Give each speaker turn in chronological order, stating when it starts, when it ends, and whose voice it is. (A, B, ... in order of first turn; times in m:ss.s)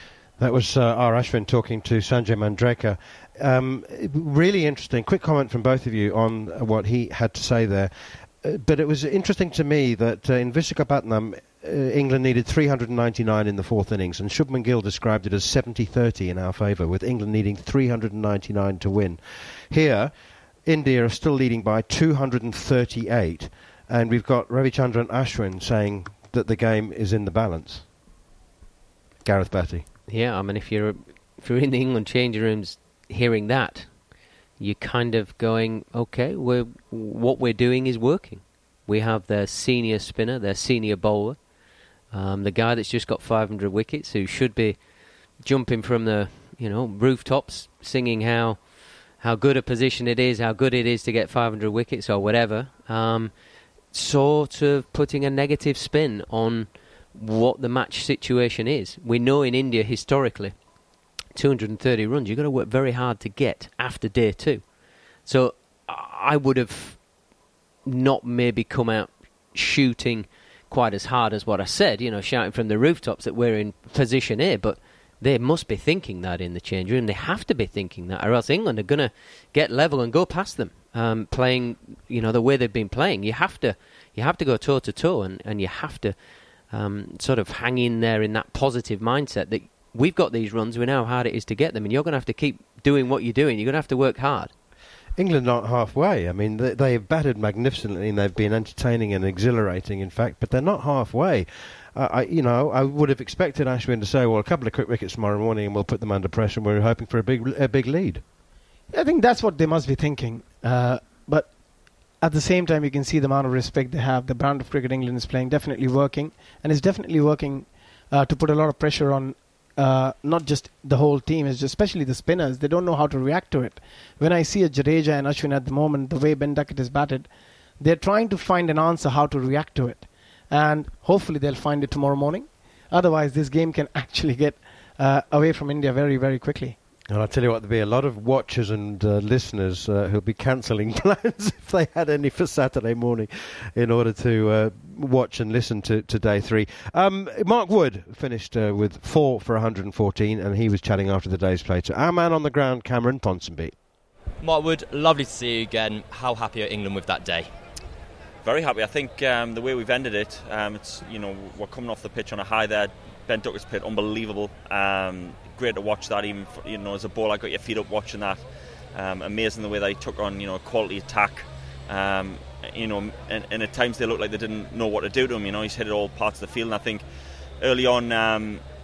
0:00.4-0:20.1 A
0:20.6-0:27.9 A
0:29.2-0:29.8 A
0:30.1-0:34.0 B
0:34.6-0:41.4 B
0:42.1-0:44.8 B
0:45.4-0:53.4 B
0:53.9-1:00.6 B
1:01.3-1:07.1 B
1:07.8-1:26.2 B
1:26.7-1:34.5 B
1:35.2-1:48.2 A
1:48.9-1:51.6 C
1:52.1-2:16.8 C
2:17.1-2:33.7 A
2:34.4-2:37.5 D
2:38.4-2:48.4 E
2:48.9-2:57.0 E
2:57.6-2:58.6 E